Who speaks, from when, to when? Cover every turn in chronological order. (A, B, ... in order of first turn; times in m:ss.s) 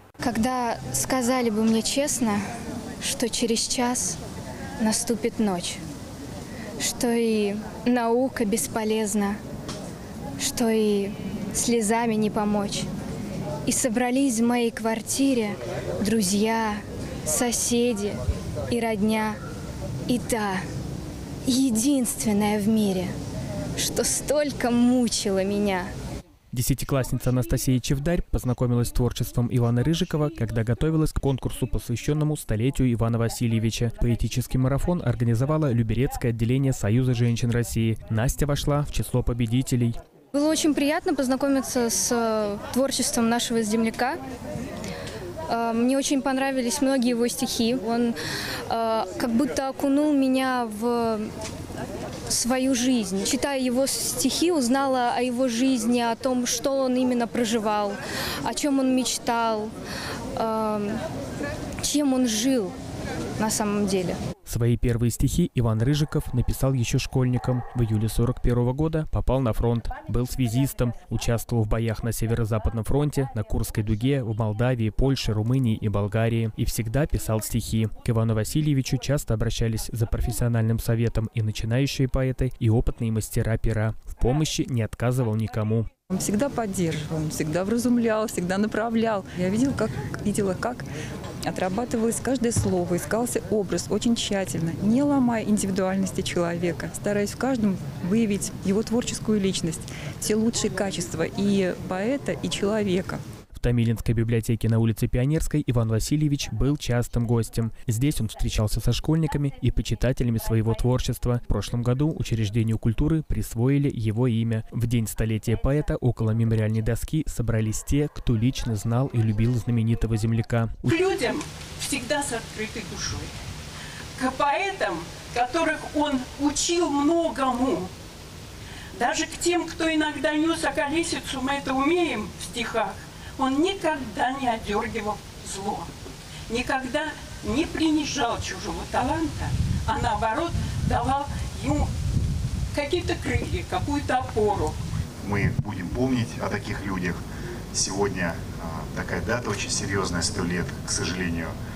0:00.2-0:02.4 A
0:03.0-0:04.2 A
0:04.8-0:05.8 A
0:06.8-0:09.4 A
0:10.4-0:12.9 A
0:13.7-0:18.2 A
0:18.7-0:19.4 A
0:20.1-0:20.6 A
0:21.4-0:23.1 A
0:23.8-0:25.9 A
0:26.5-0:40.0 B
0:40.3-0:44.2 A
0:45.5-0:48.2 A
0:48.7-0:51.3 A
0:52.3-0:59.7 A
1:00.4-1:01.0 A
1:01.8-1:02.7 A
1:03.4-1:04.2 A
1:04.4-1:25.9 B
1:26.1-1:30.8 C
1:31.4-1:43.2 C
1:43.5-2:00.9 B
2:00.8-2:03.3 D
2:04.2-2:07.9 D
2:08.9-2:15.9 D
2:16.5-2:21.9 D
2:22.7-2:24.8 D
2:25.2-2:27.2 E
2:27.7-2:31.5 E